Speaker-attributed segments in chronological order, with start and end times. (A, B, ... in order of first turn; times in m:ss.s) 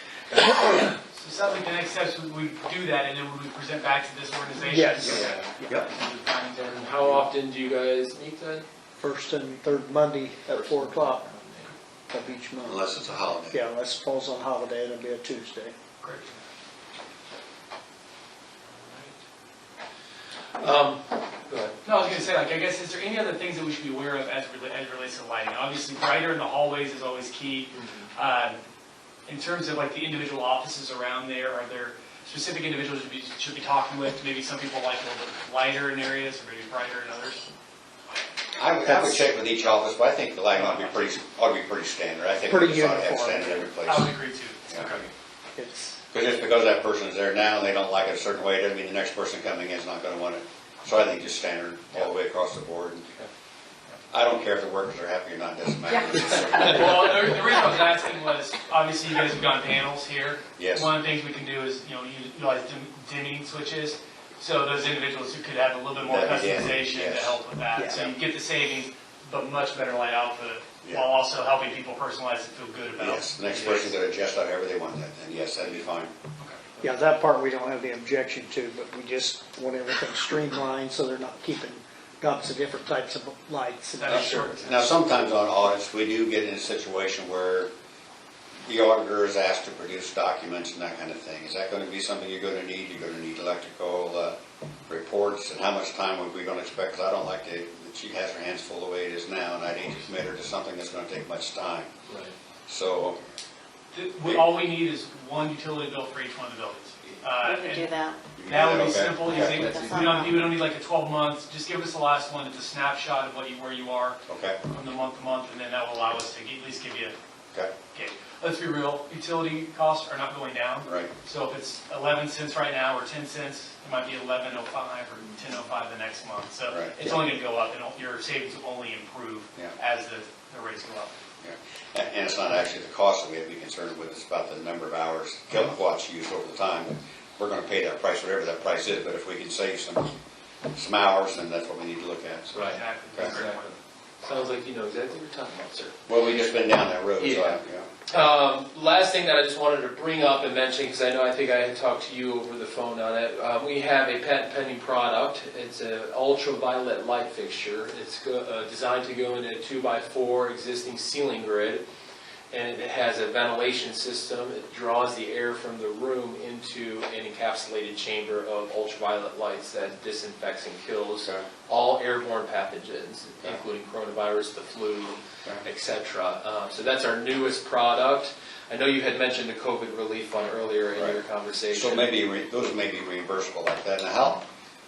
0:00.3-0:01.0 A
0:01.1-0:07.2 B
0:04.6-0:05.7 A
0:05.0-0:05.5 C
0:05.0-0:05.9 D
0:06.7-0:08.7 C
0:09.0-0:11.2 A
0:10.5-0:11.7 C
0:12.1-0:12.8 A
0:12.6-0:13.6 D
0:13.5-0:15.8 A
0:16.0-0:16.3 B
0:18.8-0:19.2 C
0:20.6-0:21.8 C
0:21.8-0:28.6 B
0:27.7-0:28.1 C
0:29.3-0:37.4 B
0:38.6-0:44.1 D
0:38.8-0:39.3 A
0:40.5-0:41.0 B
0:42.5-0:43.7 A
0:43.8-0:45.1 B
0:44.7-0:45.1 D
0:45.6-0:46.0 A
0:46.1-0:53.1 D
0:54.1-0:57.2 D
0:56.6-1:13.9 B
1:00.6-1:00.9 D
1:06.0-1:07.4 D
1:07.8-1:08.1 A
1:13.0-1:16.1 D
1:16.8-1:24.4 A
1:24.0-1:25.0 B
1:24.1-1:27.7 D
1:24.1-1:24.5 C
1:28.6-1:41.9 D
1:42.1-1:42.3 C
1:42.7-1:43.2 D
1:43.9-1:47.9 B
1:47.4-1:48.2 E
1:48.4-1:49.6 D
1:48.4-1:57.2 B
1:49.3-1:50.4 E
1:49.6-1:50.1 C
1:54.3-1:54.6 D
1:57.9-2:11.2 B
2:00.9-2:01.1 D
2:06.7-2:07.2 D
2:11.4-2:20.1 D
2:20.7-2:23.4 D
2:22.5-2:23.7 C
2:22.6-2:23.8 B
2:24.2-2:26.0 C
2:26.1-2:27.9 D
2:27.2-2:41.8 C
2:42.5-3:02.1 C
3:01.0-3:01.2 D
3:01.7-3:04.4 D